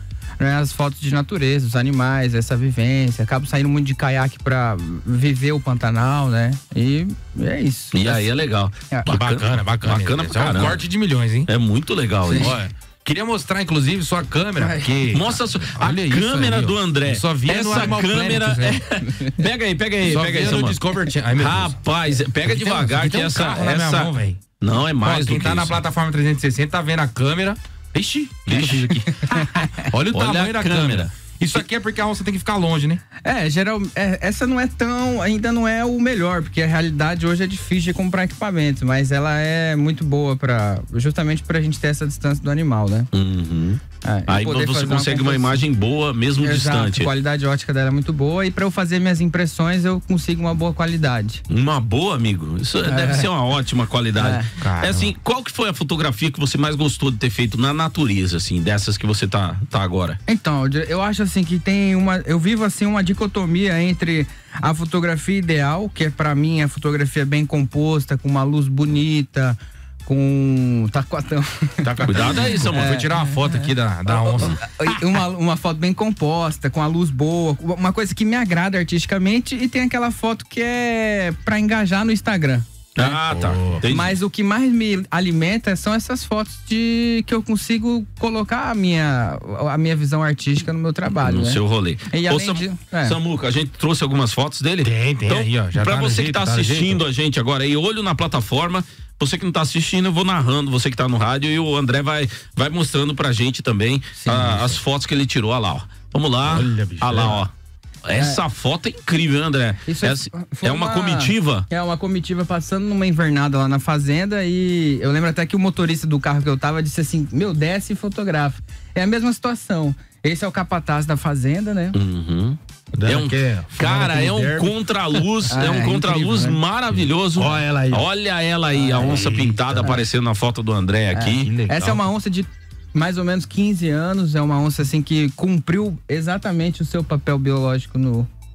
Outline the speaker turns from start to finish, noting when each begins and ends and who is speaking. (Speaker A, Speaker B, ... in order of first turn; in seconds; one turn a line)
Speaker A: 0.4-8.3
Speaker B: 7.9-10.8
Speaker C: 9.1-11.5
Speaker B: 11.5-12.6
Speaker A: 12.3-12.6
Speaker C: 12.3-18.8
Speaker A: 14.6-15.0
Speaker B: 15.1-20.8
Speaker C: 20.0-21.8
Speaker B: 21.3-25.8
Speaker C: 22.4-24.4
Speaker C: 25.0-33.0
Speaker B: 28.5-29.0
Speaker A: 29.2-29.8
Speaker B: 30.1-31.6
Speaker A: 33.2-43.1
Speaker B: 43.1-47.1
Speaker A: 44.0-45.6
Speaker A: 46.4-51.4
Speaker B: 51.5-60.2
Speaker A: 52.8-53.3
Speaker A: 54.2-54.5
Speaker C: 54.6-55.1
Speaker A: 60.3-83.2
Speaker C: 71.8-75.1
Speaker B: 72.1-73.0
Speaker B: 83.0-84.2
Speaker C: 83.3-83.8
Speaker A: 83.8-93.2
Speaker B: 91.2-107.5
Speaker C: 94.8-97.0
Speaker A: 104.2-104.8
Speaker C: 106.4-107.5
Speaker B: 108.0-111.7
Speaker A: 108.1-108.4
Speaker A: 109.9-122.0
Speaker B: 121.9-131.5
Speaker C: 123.0-124.7
Speaker A: 125.5-126.6
Speaker C: 127.3-128.1
Speaker A: 128.7-130.0
Speaker C: 129.0-129.9
Speaker A: 131.1-138.3
Speaker C: 131.4-132.1